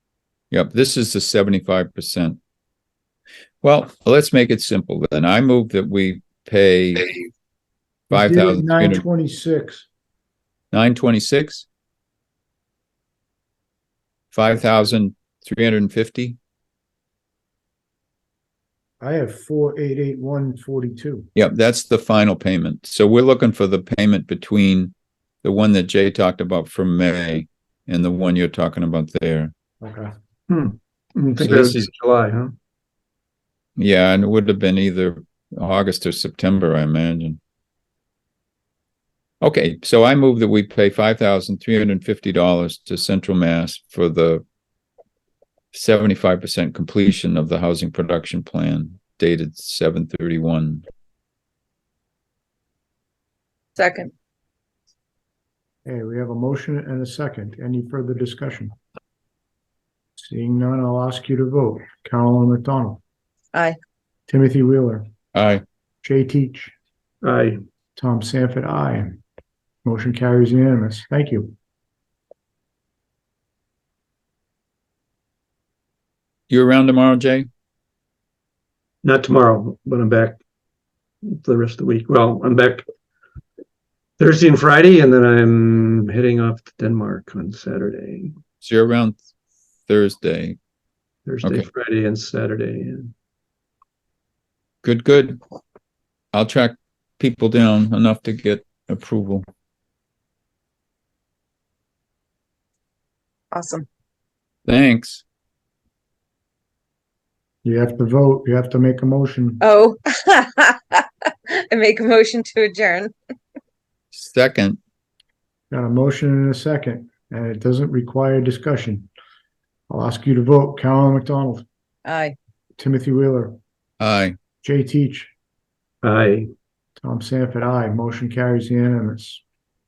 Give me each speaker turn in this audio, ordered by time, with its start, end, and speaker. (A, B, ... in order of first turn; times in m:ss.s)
0:00.5-0:02.4 A
0:03.6-0:07.1 A
0:08.1-0:09.0 A
0:08.1-0:09.9 B
0:10.7-0:11.7 A
0:14.3-0:16.4 A
0:19.0-0:21.3 B
0:21.3-0:29.5 A
0:29.8-0:30.1 B
0:30.5-0:32.5 C
0:31.4-0:31.9 A
0:33.8-0:37.4 A
0:39.4-0:44.4 A
0:45.7-0:50.8 A
0:53.8-0:54.1 D
0:55.8-0:58.7 B
1:00.2-1:03.0 B
1:04.3-1:05.1 B
1:05.3-1:05.6 A
1:06.0-1:06.7 B
1:07.2-1:07.6 C
1:08.0-1:09.2 B
1:09.8-1:11.5 B
1:16.5-1:17.5 A
1:19.0-1:20.4 C
1:21.2-1:22.8 C
1:24.2-1:28.3 C
1:28.6-1:29.2 A
1:29.9-1:30.6 A
1:31.3-1:33.1 C
1:34.8-1:35.4 A
1:36.3-1:39.4 A
1:43.5-1:43.9 D
1:44.7-1:45.2 A
1:47.6-1:49.6 B
1:49.6-1:53.1 D
1:54.1-1:54.8 A
1:55.7-1:59.1 B
1:59.9-2:01.6 B
2:02.0-2:02.4 D
2:02.8-2:03.6 B
2:04.0-2:04.4 A
2:04.6-2:05.3 B
2:06.0-2:06.5 C
2:07.0-2:09.4 B